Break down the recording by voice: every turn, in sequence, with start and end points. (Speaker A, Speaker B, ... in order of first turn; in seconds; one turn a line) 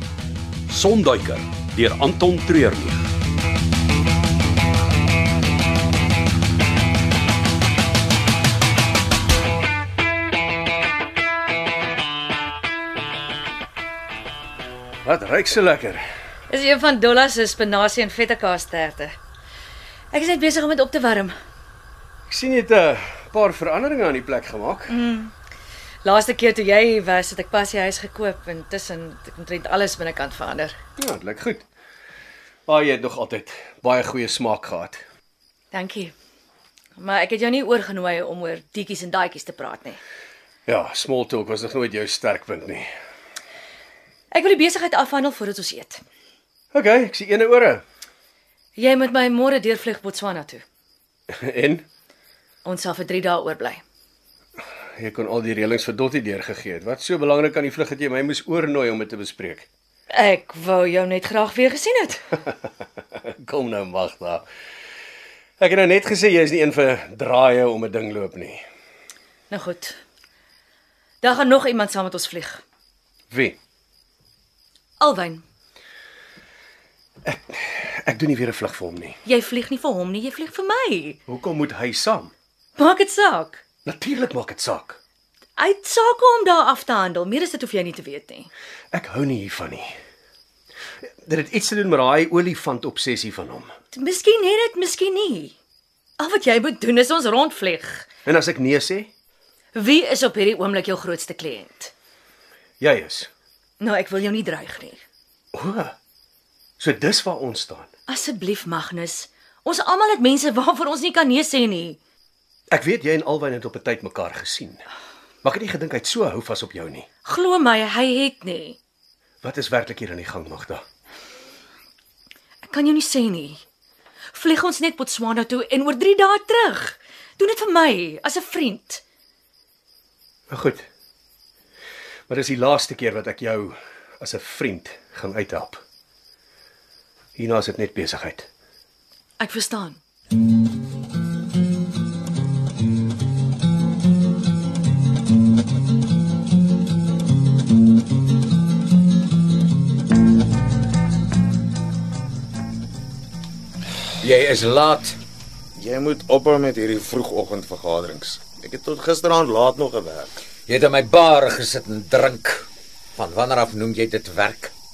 Speaker A: 0.7-3.0
Speaker B: 15.1-16.0
Speaker C: 16.5-19.1
Speaker C: 20.1-21.4
Speaker B: 22.3-24.9
Speaker C: 24.9-25.3
Speaker C: 26.0-30.8
Speaker B: 31.0-31.6
Speaker B: 32.7-35.0
Speaker C: 35.7-36.1
Speaker C: 37.0-40.0
Speaker B: 40.7-42.9
Speaker C: 44.3-46.0
Speaker B: 46.7-47.8
Speaker C: 48.8-50.6
Speaker B: 51.3-51.9
Speaker C: 52.6-53.8
Speaker B: 55.0-59.7
Speaker C: 60.1-62.2
Speaker B: 63.1-64.4
Speaker B: 65.6-68.6
Speaker C: 69.5-70.0
Speaker C: 71.2-72.6
Speaker B: 73.3-73.6
Speaker C: 75.0-75.4
Speaker B: 77.2-79.2
Speaker C: 79.2-81.2
Speaker B: 81.3-82.3
Speaker C: 82.8-83.6
Speaker B: 83.8-85.0
Speaker C: 85.6-88.5
Speaker B: 88.9-89.9
Speaker B: 91.1-93.7
Speaker C: 93.9-95.5
Speaker C: 96.2-98.1
Speaker B: 98.2-99.1
Speaker C: 99.8-101.9
Speaker B: 102.8-103.3
Speaker C: 103.8-105.0
Speaker B: 105.5-106.0
Speaker B: 106.8-107.9
Speaker C: 108.1-112.0
Speaker B: 112.7-114.8
Speaker B: 115.4-117.1
Speaker C: 117.2-118.8
Speaker B: 119.4-120.8
Speaker C: 122.7-123.6
Speaker C: 124.3-129.0
Speaker B: 130.5-130.9
Speaker B: 132.3-135.8
Speaker B: 137.4-138.5
Speaker C: 139.4-140.0
Speaker D: 154.2-155.2
Speaker E: 155.8-160.4
Speaker D: 160.7-162.7
Speaker D: 163.2-164.7